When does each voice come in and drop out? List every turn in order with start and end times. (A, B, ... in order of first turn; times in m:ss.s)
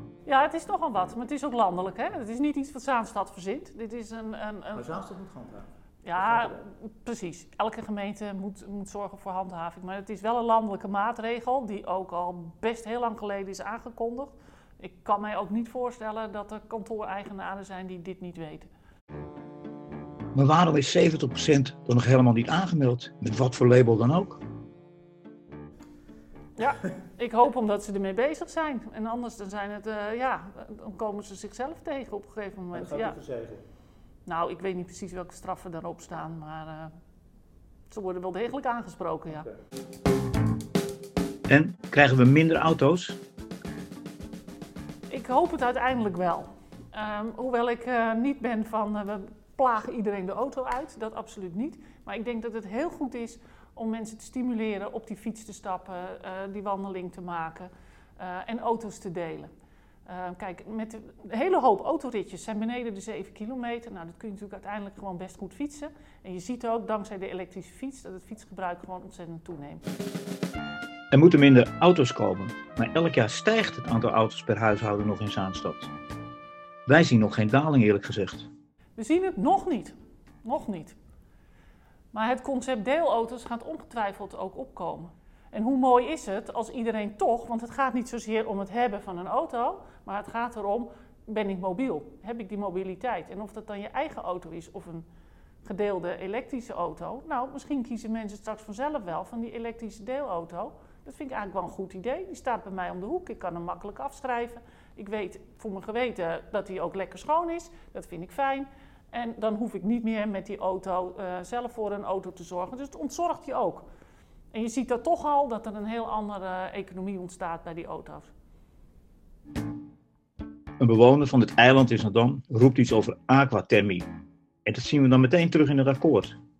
0:00.2-0:05.0 A
0:04.8-0:05.7 B
0:06.0-0:18.7 A
0:06.2-0:06.5 B
0:20.3-0:24.4 B
0:26.6-0:33.2 A
0:32.7-0:33.6 B
0:34.2-0:36.9 A
0:37.9-0:39.5 A
0:41.5-0:43.2 B
0:45.1-0:59.5 A
1:00.0-1:09.8 A
1:11.1-1:15.9 B
1:16.9-1:18.5 B
1:19.0-1:21.0 A
1:22.1-1:35.0 A
1:35.6-1:53.8 A
1:54.5-1:58.3 A
2:00.8-2:04.1 B
2:04.6-2:06.4 B